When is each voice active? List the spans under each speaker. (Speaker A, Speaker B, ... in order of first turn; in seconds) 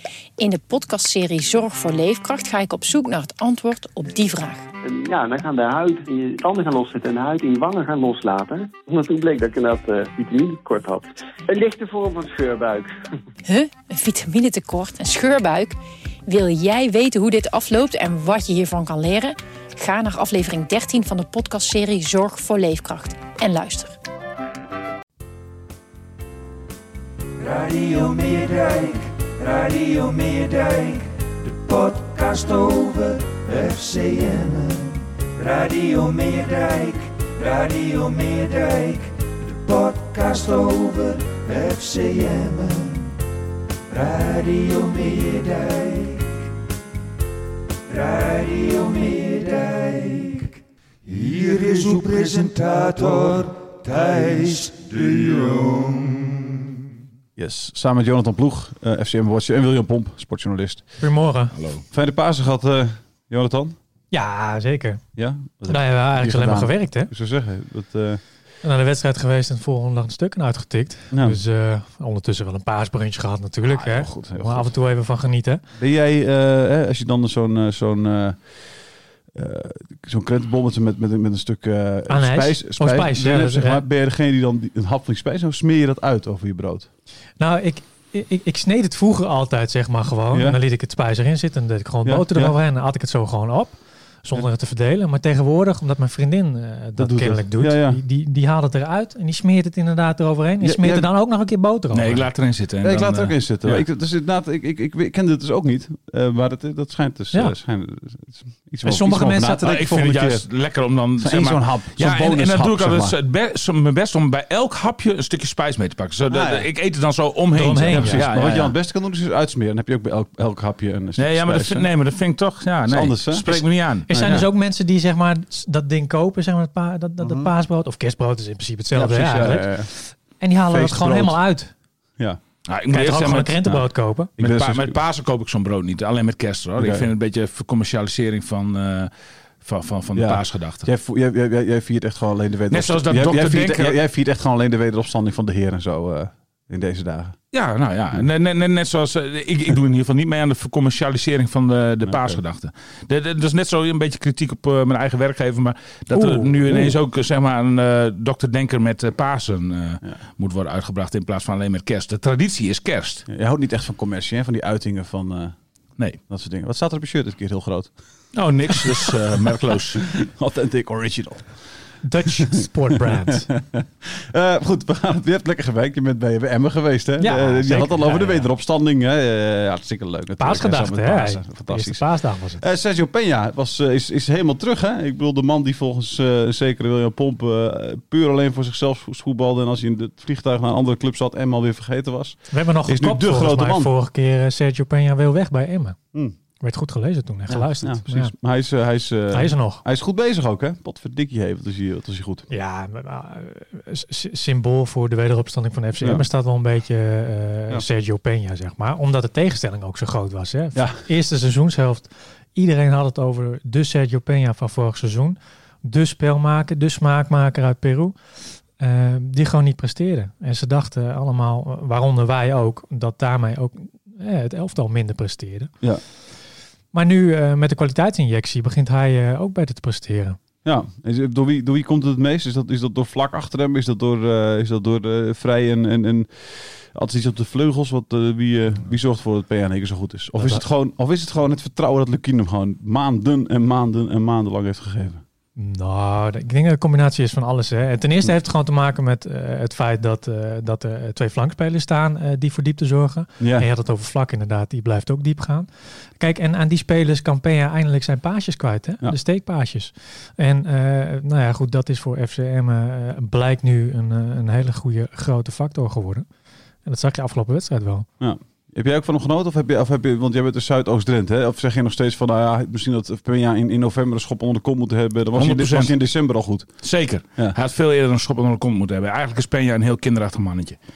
Speaker A: 0.4-4.7, 13.4-23.9
Speaker B: 4.8-12.9
Speaker C: 27.4-43.1, 43.9-46.3, 47.9-56.7
Speaker D: 57.4-61.0, 61.9-63.8, 65.2-68.2, 71.1-71.4, 73.7-74.7, 75.8-78.8, 79.3-86.9, 90.3-90.6, 92.0-92.5, 97.0-98.0, 100.6-101.1, 102.8-110.4, 111.2-113.2, 116.3-116.7, 117.9-121.9, 122.9-124.4, 127.2-127.5, 128.9-129.9, 130.7-131.4, 134.3-135.0, 136.8-137.1, 140.1-147.3, 152.1-152.4, 156.1-157.0, 163.3-165.6, 166.3-167.9, 168.7-169.1, 170.0-171.6, 172.4-193.9, 197.5-202.5, 210.8-211.0, 230.6-245.2, 253.4-253.7, 268.2-276.8
Speaker E: 61.0-61.5, 64.1-65.0, 65.7-67.1, 68.6-75.6, 82.1-83.8, 87.4-102.3, 108.8-109.7, 117.5-118.2, 124.1-131.7, 132.9-134.3, 172.0-173.5, 177.2-178.5, 180.4-182.6, 192.5-196.0, 196.6-198.3, 199.3-199.8, 202.5-225.7, 226.9-230.4, 245.6-266.2, 266.8-268.1
Speaker F: 61.5-61.8, 101.9-103.8, 109.6-118.7, 121.2-124.5, 132.7-133.7, 134.4-139.1, 139.6-140.8, 142.7-144.0, 147.5-163.2, 168.3-170.2, 275.3-275.9, 276.8-280.8